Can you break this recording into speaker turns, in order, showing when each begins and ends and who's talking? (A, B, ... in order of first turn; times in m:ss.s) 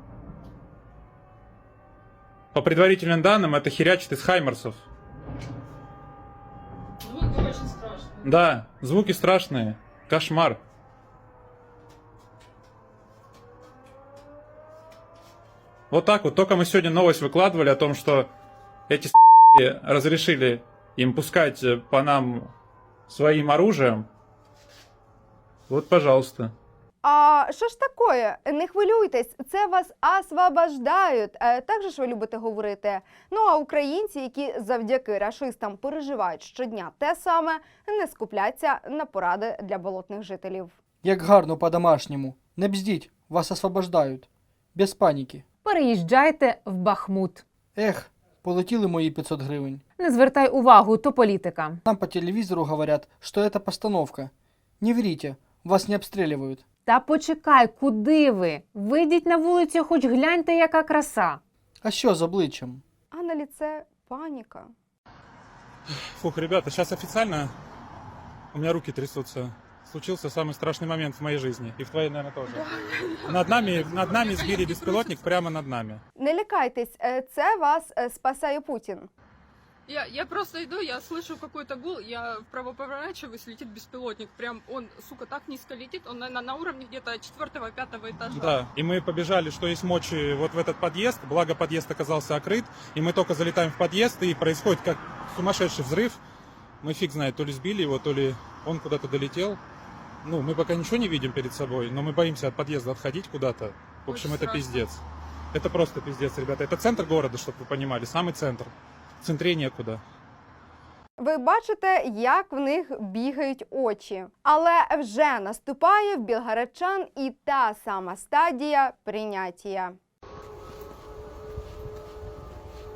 0:02.5-0:04.8 A
0:07.0-0:08.2 B
0:08.2-0:10.6 A
0:15.9-0:18.3 A
0:18.9-0:22.5 A
0:23.1-0:24.1 A
0:25.7-0:26.5 A
0:27.0-0:40.7 C
0:41.0-0:45.4 D
0:45.6-0:47.4 E
0:47.7-0:49.8 D
0:50.0-0:51.8 E
0:51.8-0:56.6 D
0:56.8-1:01.4 E
1:01.8-1:02.8 D
1:03.1-1:04.7 C
1:06.2-1:07.5 A
1:08.5-1:12.6 A
1:12.5-1:15.2 B
1:13.3-1:16.0 A
1:16.2-1:19.1 C
1:19.9-1:28.6 B
1:28.4-1:36.2 A
1:36.8-1:39.6 A
1:40.2-1:45.0 A
1:44.1-1:44.8 B
1:45.5-1:50.0 A
1:51.2-2:00.0 C